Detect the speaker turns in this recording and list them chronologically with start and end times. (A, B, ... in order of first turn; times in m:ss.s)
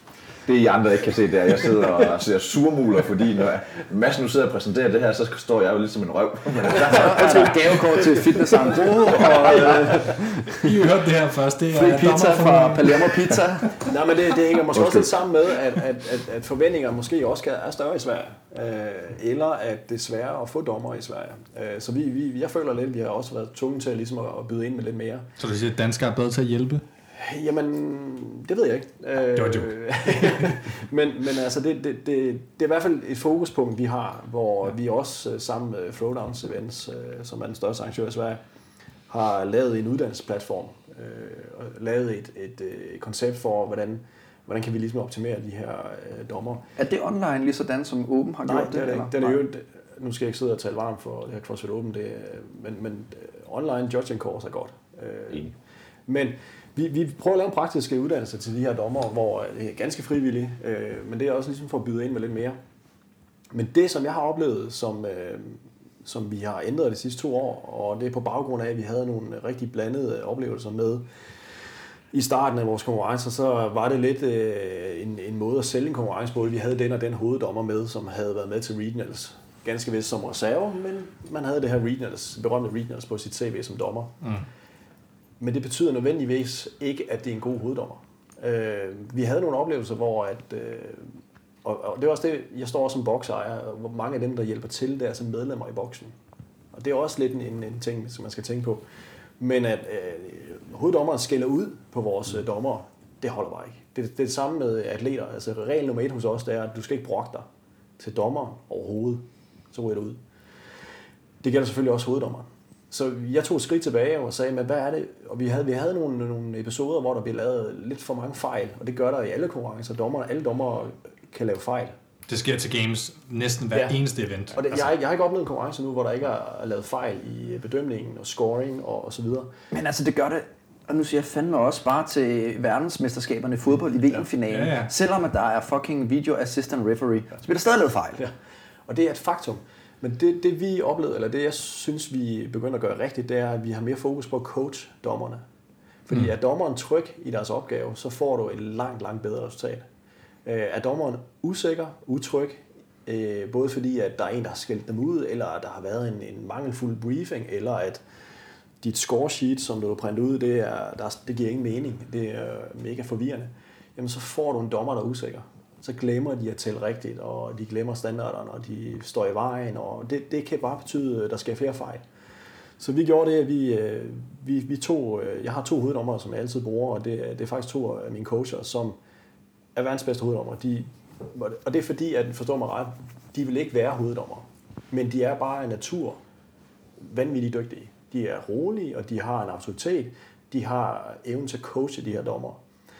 0:00.4-0:07.8 A
0:06.8-0:10.7 B
0:07.0-0:10.2 C
0:10.5-0:13.9 D
0:11.7-0:13.8 B
0:13.8-0:25.3 C
0:14.7-0:15.1 A
0:25.4-0:26.8 D
0:27.1-0:38.4 C
0:29.4-0:29.8 D
0:39.1-0:46.6 C
0:46.8-0:49.4 B
0:48.4-0:55.5 C
0:56.1-1:02.6 C
1:03.5-1:11.0 C
1:12.1-1:24.1 C
1:25.4-1:31.1 C
1:31.6-1:36.1 C
1:36.7-1:38.8 C
1:39.4-1:47.5 C
1:48.0-1:50.2 C
1:51.4-2:02.0 C
2:02.3-2:04.9 D
2:04.5-2:09.5 C
2:09.7-2:18.2 B
2:14.5-2:14.9 D
2:18.9-2:25.4 C
2:26.1-2:29.8 C
2:30.4-2:38.0 C
2:38.8-2:52.0 C
2:52.8-2:59.0 C
2:59.8-3:06.2 C
3:07.0-3:12.6 C